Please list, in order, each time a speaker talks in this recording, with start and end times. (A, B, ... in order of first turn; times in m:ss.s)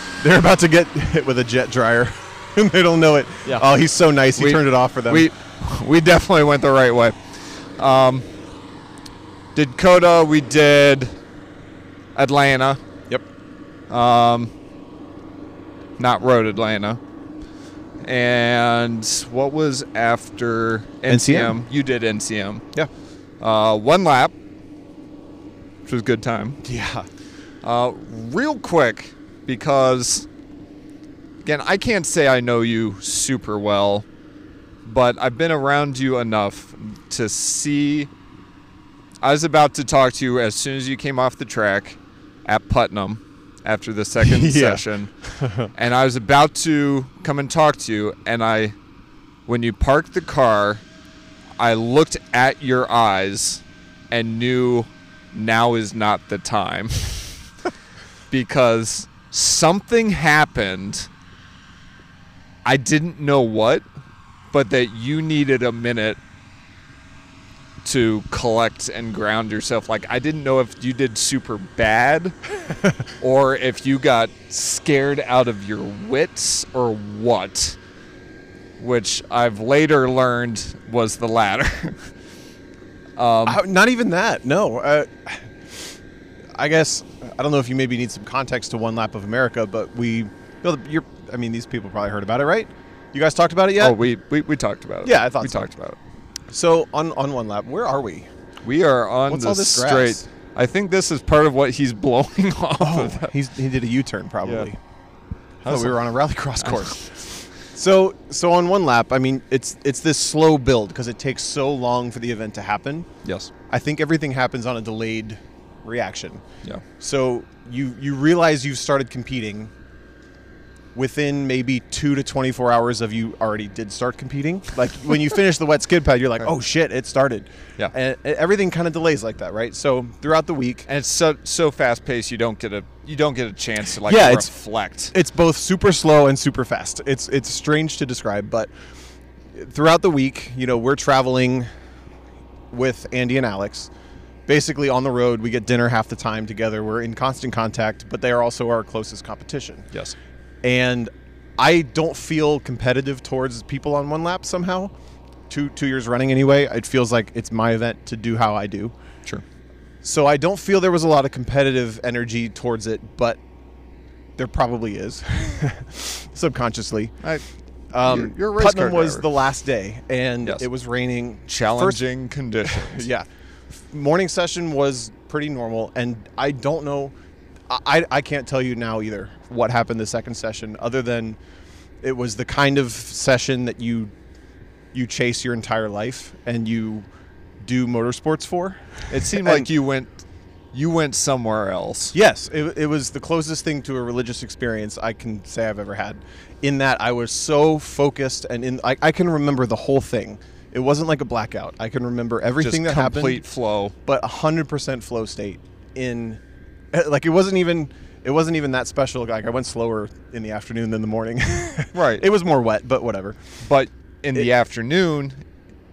0:00.2-0:05.3 A
0:04.4-0:08.3 B
0:09.5-0:11.1 B
0:12.2-0:12.8 B
0:13.9-0:14.5 B
0:16.0-0:17.0 B
0:18.0-0:22.6 B
0:21.1-0:21.6 A
0:23.4-0:24.3 B
0:25.8-0:26.6 B
0:26.6-0:27.1 A
0:27.6-0:30.3 B
0:31.4-0:34.1 B
0:34.9-0:38.1 B
0:39.2-0:45.1 B
0:44.2-0:45.7 A
0:45.7-0:48.8 B
0:49.5-0:50.8 B
0:51.6-0:57.3 B
0:58.3-1:01.1 B
1:02.6-1:03.9 B
1:04.5-1:06.2 B
1:07.8-1:12.4 B
1:13.2-1:17.8 B
1:18.8-1:22.1 B
1:23.2-1:23.6 B
1:23.5-1:25.9 A
1:26.6-1:34.0 A
1:33.8-1:36.0 B
1:35.0-1:35.7 A
1:36.5-1:38.3 A
1:38.6-1:43.3 B
1:39.3-1:40.3 A
1:42.8-1:44.8 A
1:44.4-1:44.7 B
1:45.6-1:46.0 B
1:45.7-1:47.1 A
1:46.6-1:47.3 B
1:47.6-1:53.1 A
1:53.2-1:53.5 B
1:53.7-1:56.4 A
1:57.0-1:59.7 A
2:01.0-2:10.9 A
2:10.9-2:15.1 B
2:14.0-2:14.5 A
2:15.1-2:18.7 A
2:19.5-2:21.7 A
2:22.7-2:23.9 A
2:24.5-2:29.9 A
2:30.6-2:34.9 A
2:35.5-2:38.9 A
2:40.0-2:43.4 A
2:44.4-2:47.2 A
2:47.9-2:52.0 A
2:48.0-2:49.2 B
2:51.5-2:53.1 B
2:52.6-2:57.1 A
2:57.7-3:01.4 A
3:02.0-3:04.1 A
3:04.9-3:07.1 A
3:07.6-3:09.7 A
3:09.1-3:12.2 B
3:12.1-3:23.4 A
3:22.6-3:24.0 B
3:24.1-3:26.4 A
3:26.9-3:33.5 A
3:31.9-3:32.3 B
3:33.6-3:35.4 B